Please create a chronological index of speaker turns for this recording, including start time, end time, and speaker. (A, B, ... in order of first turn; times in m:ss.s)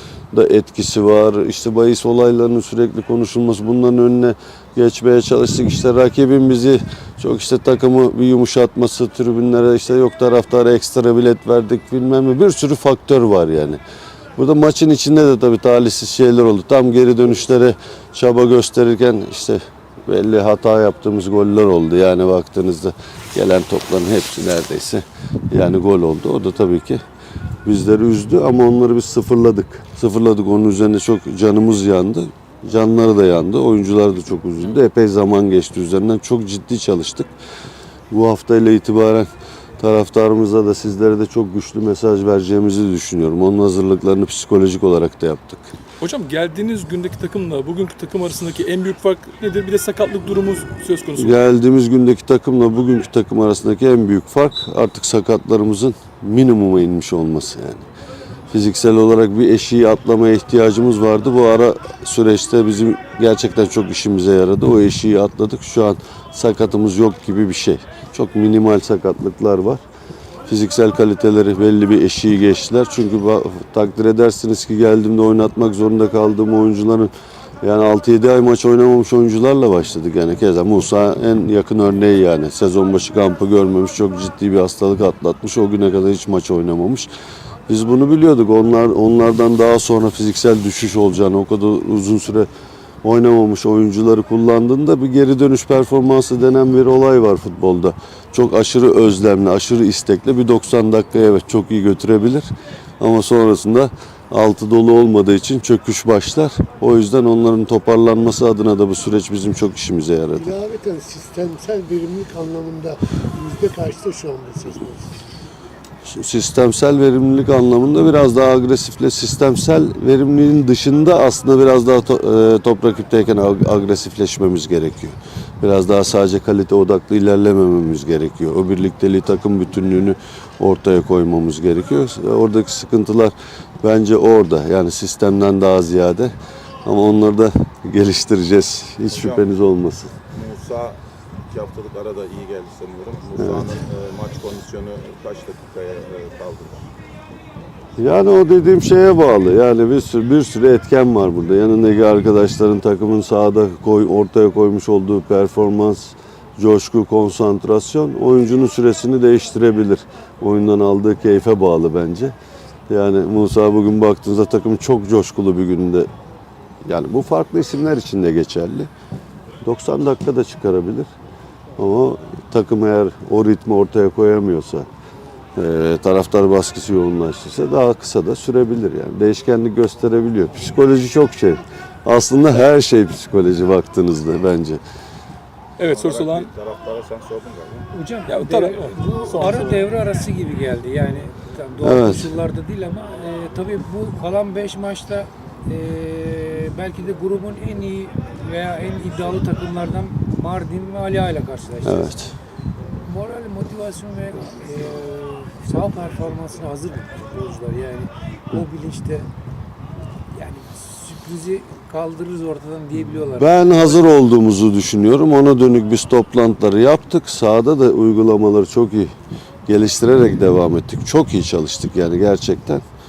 0:00.3-0:13.8 A
0:14.4-0:27.0 A
0:27.6-0:37.3 A
0:38.1-0:45.7 A
0:46.0-0:51.4 B
0:51.2-0:57.9 A
0:58.5-1:09.8 A
1:10.5-1:17.1 A
1:17.6-1:27.1 A
1:27.7-1:32.5 A
1:33.0-1:42.5 A
1:43.0-1:50.5 A
1:50.3-1:55.2 C
1:56.0-2:16.3 A
2:16.8-2:20.1 A
2:19.1-2:19.5 D
2:20.2-2:26.8 D
2:23.4-2:23.7 A
2:28.0-2:42.3 A
2:42.9-2:46.1 A
2:46.8-2:48.9 A
2:49.6-2:51.1 A
2:51.8-2:54.9 A
2:55.6-3:04.8 A
3:05.8-3:06.5 B
3:05.8-3:07.9 D
3:07.9-3:22.2 E
3:08.3-3:09.9 B
3:11.8-3:12.3 A
3:21.8-3:22.3 A
3:23.0-3:29.3 E
3:30.3-3:34.1 E
3:33.3-3:39.1 A
3:39.7-3:42.8 A